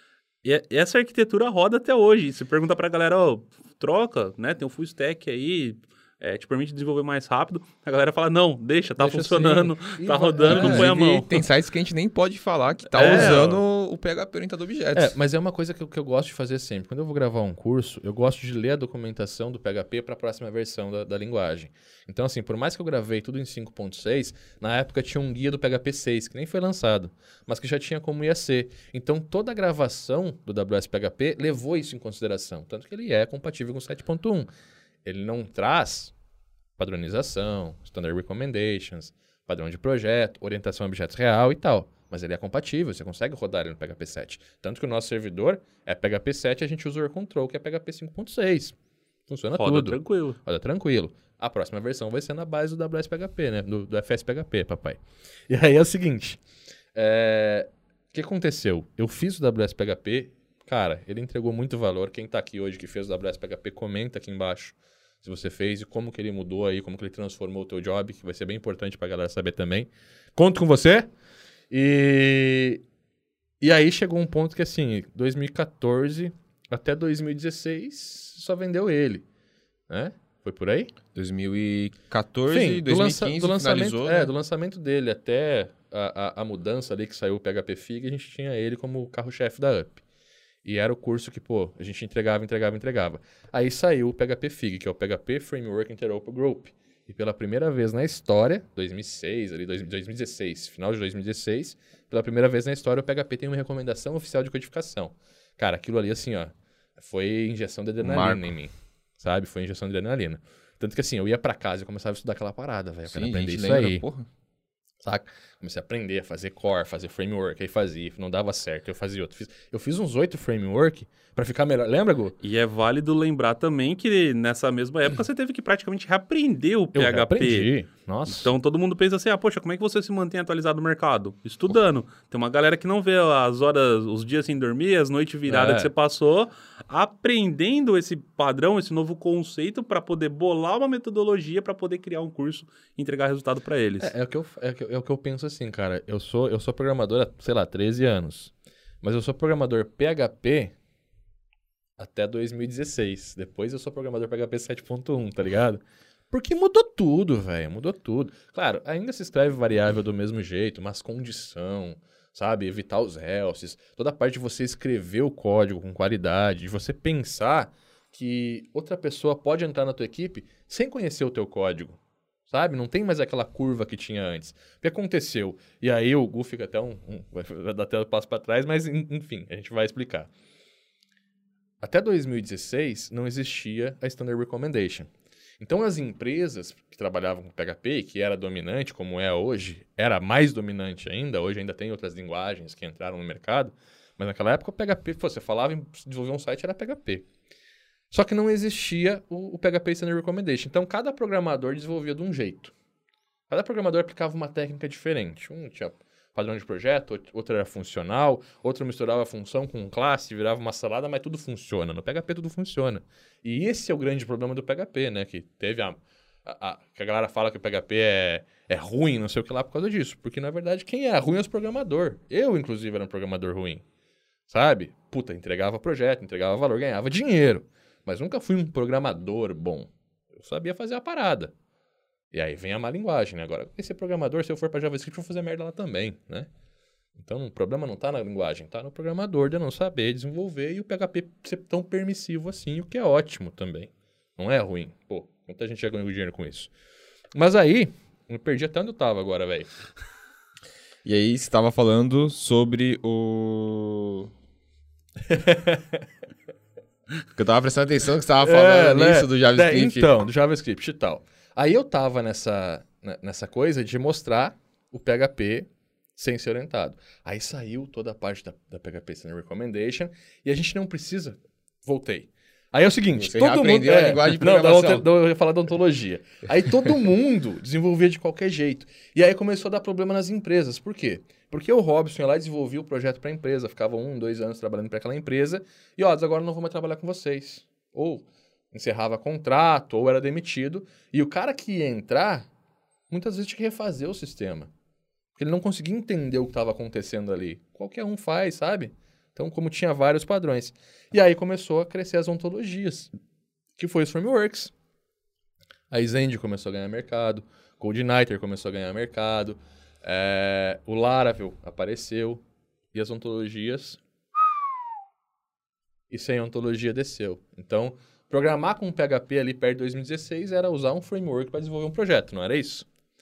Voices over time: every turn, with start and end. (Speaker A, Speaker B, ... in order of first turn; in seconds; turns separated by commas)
Speaker A: 0.4-11.3, Speaker B: 9.0-10.9, Speaker C: 10.4-15.1, Speaker A: 12.9-13.6, Speaker B: 13.0-13.5, Speaker B: 14.9-34.5, Speaker B: 35.0-36.1, Speaker B: 36.8-48.8, Speaker B: 49.3-56.4, Speaker A: 49.6-50.4, Speaker B: 56.9-71.1, Speaker B: 71.7-72.8, Speaker B: 73.6-79.2, Speaker B: 79.9-80.9, Speaker C: 81.1-84.3, Speaker B: 82.5-90.0, Speaker B: 90.6-114.0, Speaker C: 108.0-108.4, Speaker C: 113.1-114.3, Speaker B: 115.0-122.3, Speaker A: 122.4-127.7, Speaker B: 126.9-128.5, Speaker A: 128.3-144.1, Speaker B: 135.5-135.9, Speaker B: 144.0-150.7, Speaker B: 152.0-180.3, Speaker B: 181.8-197.2, Speaker B: 198.1-202.7, Speaker B: 203.5-223.8, Speaker B: 224.5-231.5, Speaker B: 232.3-236.5, Speaker B: 237.1-246.7, Speaker B: 247.3-249.7, Speaker C: 251.0-254.3, Speaker B: 255.3-256.0, Speaker C: 257.4-260.1, Speaker B: 258.4-292.5, Speaker C: 273.1-275.1, Speaker B: 293.1-294.7, Speaker B: 295.4-303.1, Speaker B: 303.8-304.7, Speaker B: 305.9-314.0, Speaker B: 316.1-322.9